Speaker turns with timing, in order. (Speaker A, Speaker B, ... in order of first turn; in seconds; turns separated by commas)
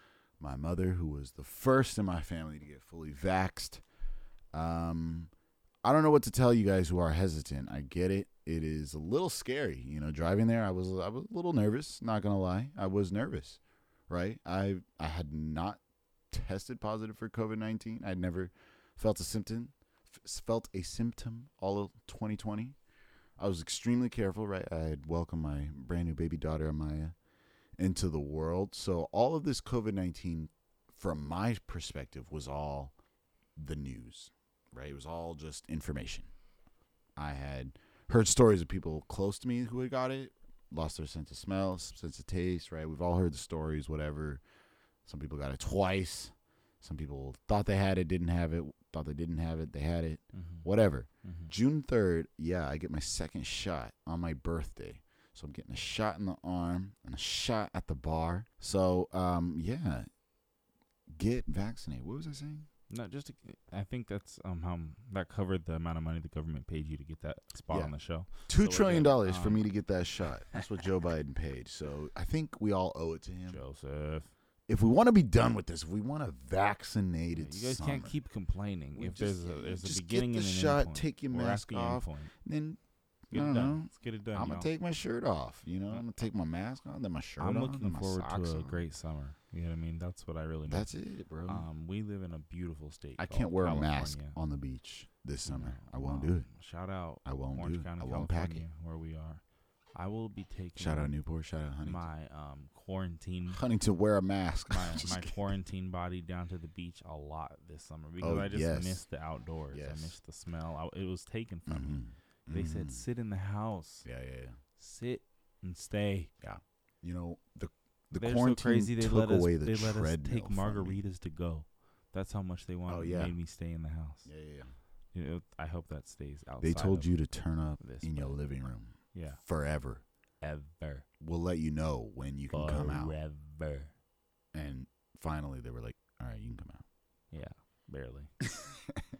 Speaker A: 0.4-3.8, Speaker A: 4.5-5.3, Speaker A: 5.8-22.8, Speaker A: 23.4-27.1, Speaker A: 27.8-32.9, Speaker A: 33.6-36.3, Speaker A: 37.2-44.4, Speaker A: 45.0-60.1, Speaker B: 50.3-50.7, Speaker B: 51.2-51.5, Speaker A: 61.1-62.7, Speaker B: 62.9-69.7, Speaker A: 67.7-73.6, Speaker B: 73.5-74.3, Speaker A: 74.7-78.2, Speaker B: 77.3-82.3, Speaker A: 78.9-82.8, Speaker A: 83.3-88.8, Speaker B: 83.3-84.7, Speaker B: 85.9-86.3, Speaker B: 87.4-90.9, Speaker A: 90.7-91.7, Speaker B: 91.5-94.3, Speaker A: 93.2-96.5, Speaker B: 95.4-99.4, Speaker A: 97.2-98.7, Speaker B: 99.9-101.1, Speaker A: 100.8-102.1, Speaker B: 101.8-103.6, Speaker A: 103.5-105.5, Speaker B: 104.7-114.0, Speaker A: 108.2-109.0, Speaker A: 109.7-110.2, Speaker A: 111.7-113.0, Speaker A: 114.0-114.6, Speaker B: 114.8-116.3, Speaker A: 116.4-121.0, Speaker B: 118.1-124.3, Speaker A: 122.9-123.4, Speaker A: 124.2-124.7, Speaker B: 125.1-127.2, Speaker A: 126.6-130.0, Speaker B: 127.8-128.4, Speaker B: 129.1-129.4, Speaker B: 130.4-131.1, Speaker A: 131.2-133.2, Speaker B: 132.5-133.9, Speaker A: 134.5-136.8, Speaker B: 137.3-138.3